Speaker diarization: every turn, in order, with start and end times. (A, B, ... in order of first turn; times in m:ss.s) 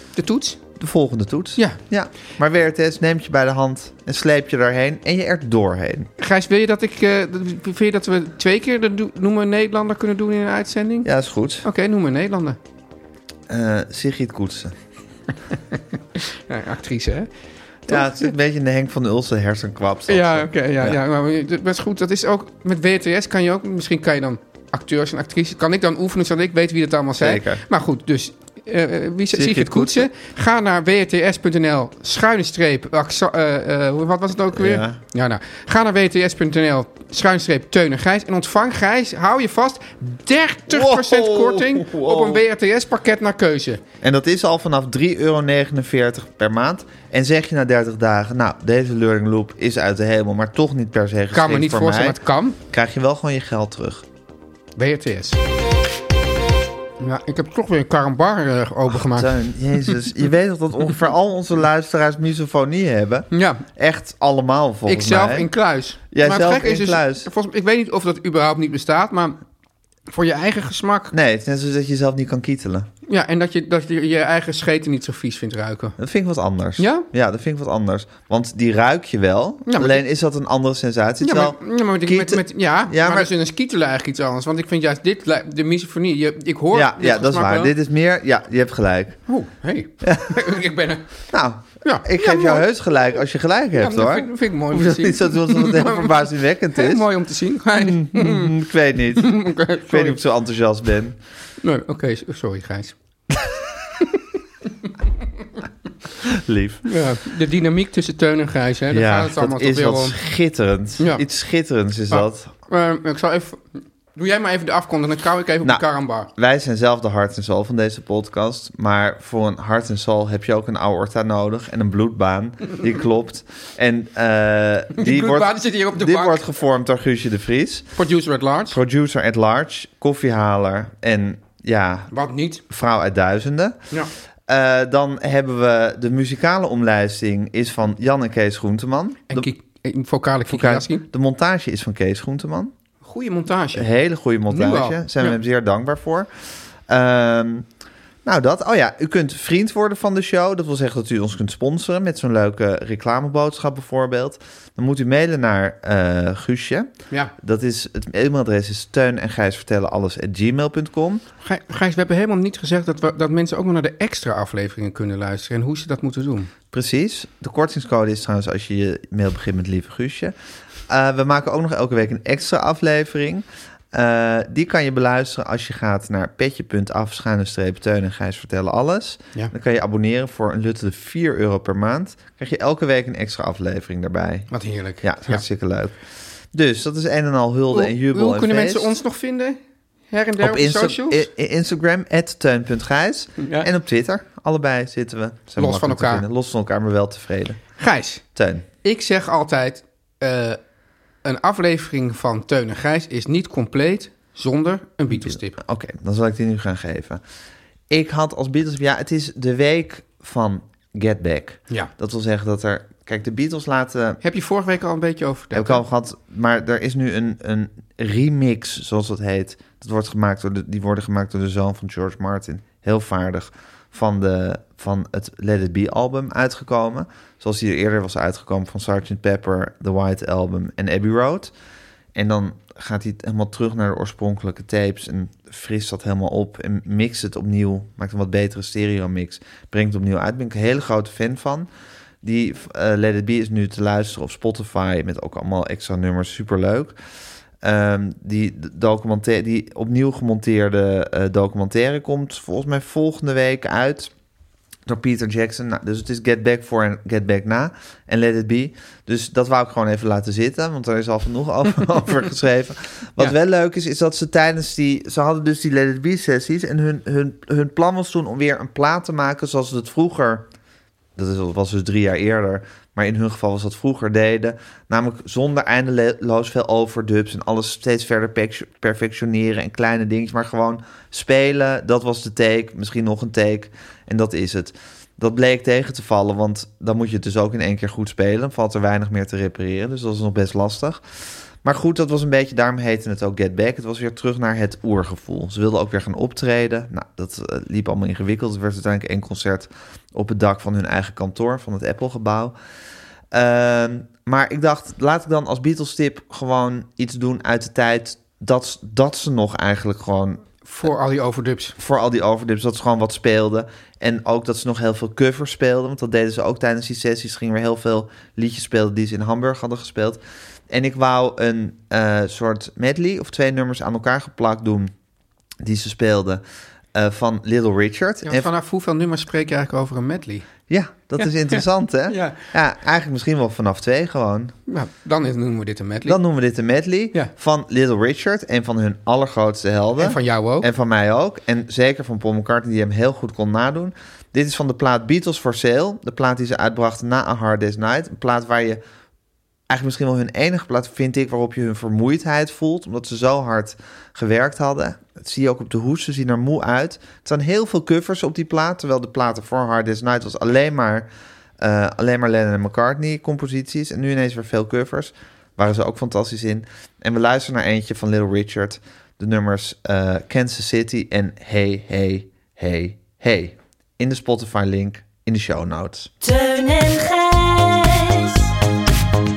0:00.2-0:00.6 A
0:00.8-0:06.1 B
0:06.2-0:11.1 A
0:11.0-0:11.6 B
0:11.6-0:12.6 A
0:13.5-0:14.8 B
0:15.7-0:17.3 A
0:17.9-0:21.0 B
0:20.1-0:43.8 A
0:27.2-0:27.6 B
0:29.3-0:30.1 B
0:34.5-0:35.0 B
0:40.7-0:42.4 B
0:44.0-0:52.2 B
0:51.3-0:52.6 A
0:52.7-0:54.0 B
0:54.8-0:55.4 A
0:57.0-1:00.1 A
0:59.0-1:05.5 B
1:03.3-1:03.6 A
1:04.9-1:09.4 A
1:06.1-1:07.3 B
1:10.1-1:11.1 A
1:11.1-1:12.9 B
1:13.1-1:16.0 A
1:16.0-1:23.3 B
1:16.8-1:17.1 A
1:19.7-1:20.0 A
1:21.2-1:27.7 A
1:26.7-1:29.2 B
1:29.3-1:31.1 A
1:30.0-1:30.6 B
1:31.3-1:37.1 B
1:31.8-1:32.6 A
1:33.8-1:38.6 A
1:37.7-1:41.2 B
1:39.2-1:40.2 A
1:41.6-1:43.0 A
1:46.2-1:46.8 B
1:46.8-1:50.2 A
1:48.9-1:52.5 B
1:51.0-1:51.2 A
1:52.1-1:56.3 A
1:55.6-2:08.0 B
2:05.0-2:06.4 A
2:08.0-2:08.8 A
2:08.7-2:12.1 B
2:12.1-2:12.6 A
2:12.7-2:13.8 B
2:14.5-2:19.5 B
2:19.3-2:21.1 A
2:20.5-2:22.7 B
2:23.0-2:23.9 A
2:23.8-2:26.3 B
2:24.5-2:25.4 A
2:26.9-2:27.7 B
2:28.2-2:41.2 B
2:41.4-2:46.5 A
2:46.7-2:50.4 B
2:50.9-3:06.0 B
3:04.5-3:05.4 A
3:06.5-3:09.0 B
3:07.7-3:09.6 A
3:10.1-3:11.3 A
3:10.4-3:17.6 B
3:13.4-3:13.7 A
3:15.6-3:16.2 A
3:17.8-3:18.2 A
3:18.4-3:18.7 B
3:18.8-3:20.6 A
3:21.2-3:25.6 A
3:25.1-3:27.2 B
3:27.9-3:34.2 B
3:34.2-3:35.8 A
3:35.5-3:51.5 B
3:52.2-4:01.7 B
4:02.2-4:07.0 B
4:07.6-4:14.1 B
4:14.9-4:30.5 B
4:31.2-4:51.0 B
4:51.6-5:02.6 B
5:03.3-5:10.4 B
5:10.6-5:11.8 A
5:11.8-5:24.9 B
5:25.6-5:26.4 B
5:26.9-5:28.5 B
5:28.2-5:30.5 A
5:30.7-5:34.5 B
5:31.2-5:32.4 A
5:34.7-5:36.2 A
5:36.1-5:48.8 B
5:40.0-5:40.7 A
5:49.7-6:01.1 B
6:01.6-6:16.1 B
6:16.2-6:18.5 C